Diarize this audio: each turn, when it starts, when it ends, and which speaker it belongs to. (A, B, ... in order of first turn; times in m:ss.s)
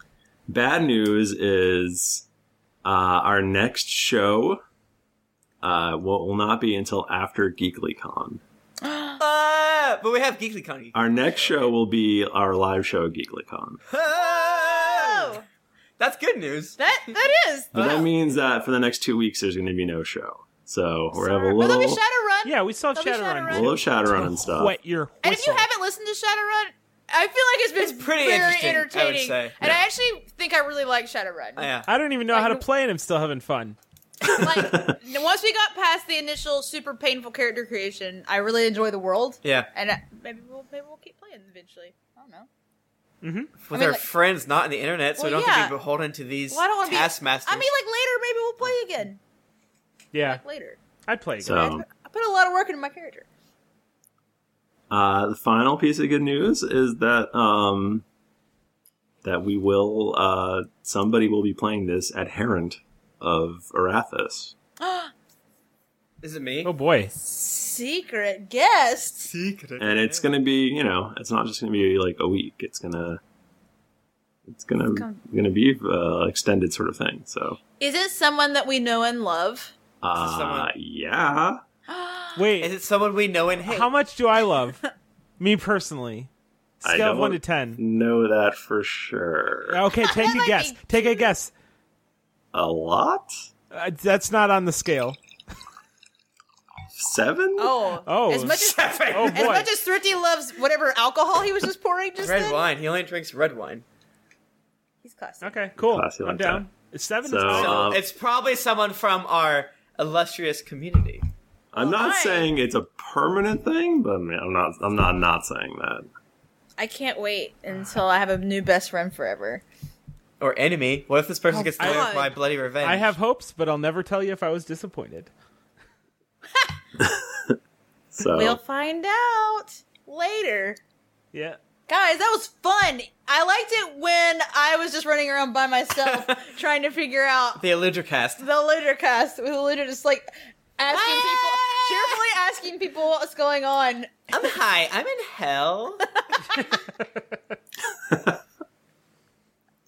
0:00.5-0:02.2 A
0:02.8-0:04.6 A
0:05.6-0:08.4 A
0:08.8-0:09.2 B
0:09.2-0:11.7 C
0:10.9-0:13.8 A
0:13.9-0:15.4 C
0:14.1-0:15.4 B
0:16.0-0:16.8 C
0:16.8-0:17.7 B
0:17.7-0:22.0 A
0:17.8-0:18.0 C
0:21.1-0:23.8 B
0:22.4-0:25.7 D
0:23.5-0:24.8 A
0:25.2-0:31.7 B
0:27.8-0:29.7 C
0:31.6-0:31.9 C
0:31.9-0:33.8 D
0:32.3-0:32.6 B
0:34.3-0:42.5 B
0:39.4-0:39.7 C
0:43.2-0:43.5 D
0:43.6-0:47.7 C
0:43.7-0:44.0 B
0:45.2-0:45.7 B
0:46.5-0:49.2 B
0:50.1-0:50.4 D
0:50.2-0:50.8 B
0:51.1-0:51.6 D
0:51.4-0:51.8 A
0:51.5-0:53.3 B
0:54.9-0:58.0 A
0:59.2-1:04.5 A
1:04.8-1:05.1 B
1:06.2-1:06.7 C
1:06.6-1:07.1 D
1:07.2-1:09.3 B
1:09.3-1:10.3 C
1:09.8-1:13.2 A
1:14.5-1:17.6 A
1:14.9-1:15.2 B
1:17.8-1:19.7 B
1:20.0-1:21.6 A
1:20.2-1:20.7 C
1:21.9-1:22.5 B
1:22.4-1:22.7 D
1:22.6-1:23.9 C
1:23.6-1:24.8 D
1:25.4-1:26.3 D
1:26.8-1:27.8 D
1:26.8-1:29.8 A
1:29.7-1:31.5 D
1:30.0-1:31.3 B
1:32.5-1:33.3 A
1:33.7-1:35.2 D
1:37.0-1:37.8 A
1:37.6-1:42.6 B
1:38.0-1:38.6 D
1:38.4-1:39.6 C
1:39.1-1:39.7 D
1:42.2-1:43.8 C
1:45.0-1:45.6 B
1:45.4-1:47.9 D
1:45.8-1:46.7 A
1:47.2-1:48.0 A
1:47.5-1:51.2 C
1:51.7-1:56.1 A
1:51.8-1:52.5 B
1:56.8-1:59.6 B
2:00.4-2:03.2 C
2:01.5-2:02.2 D
2:01.8-2:02.3 B
2:02.8-2:05.3 D
2:07.0-2:07.6 A
2:08.1-2:08.6 A
2:08.2-2:10.8 B
2:11.3-2:11.6 D
2:11.9-2:17.6 B
2:16.0-2:16.3 C
2:17.6-2:18.4 C
2:18.4-2:24.1 B
2:20.9-2:22.2 C
2:24.3-2:26.0 C
2:28.1-2:28.4 A